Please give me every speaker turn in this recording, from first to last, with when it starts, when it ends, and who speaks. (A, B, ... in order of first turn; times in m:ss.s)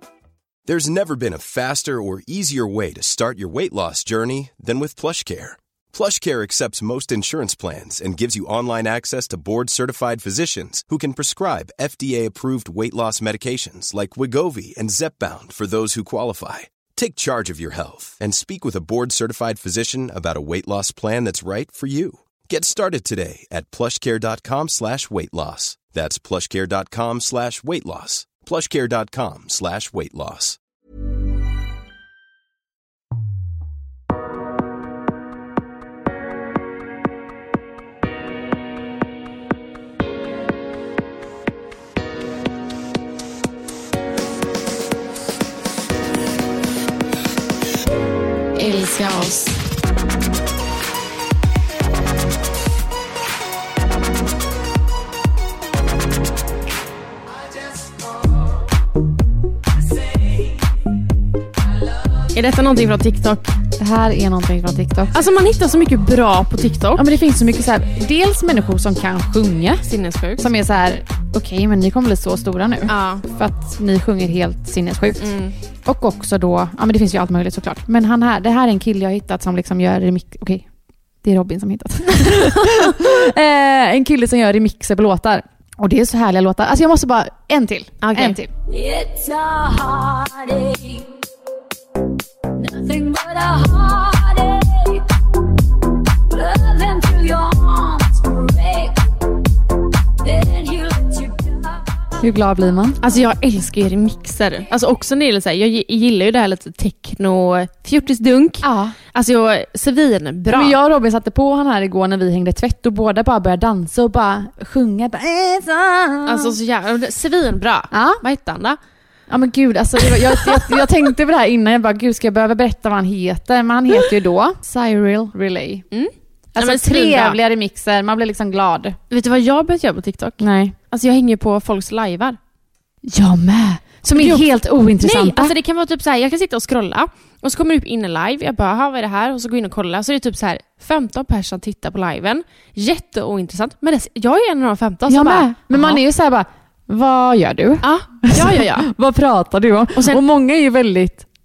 0:00.7-0:30.6 A
0:48.5-0:49.6 B
1:02.3-1:03.5 C
1:03.8-1:05.2 B
1:05.1-1:07.1 C
1:06.9-1:09.8 B
1:09.8-1:10.4 C
1:10.4-1:15.2 B
1:12.9-1:13.2 C
1:15.2-1:15.5 C
1:15.8-1:20.7 B
1:21.2-1:29.9 B
1:28.0-1:28.4 C
1:32.6-1:33.9 B
1:36.4-1:38.9 D
1:40.4-1:41.1 D
1:42.2-1:43.1 B
1:43.0-1:50.8 C
1:48.6-1:49.0 B
1:50.5-1:56.6 B
1:56.2-1:58.8 C
1:57.9-1:58.2 B
1:59.3-2:05.8 B
2:00.3-2:00.8 C
2:05.9-2:07.4 C
2:06.5-2:09.0 B
2:09.1-2:12.4 C
2:10.4-2:10.8 B
2:13.0-2:15.6 B
2:14.1-2:14.4 C
2:15.0-2:26.0 C
2:25.1-2:31.2 B
2:27.8-2:28.9 C
2:29.9-2:30.2 C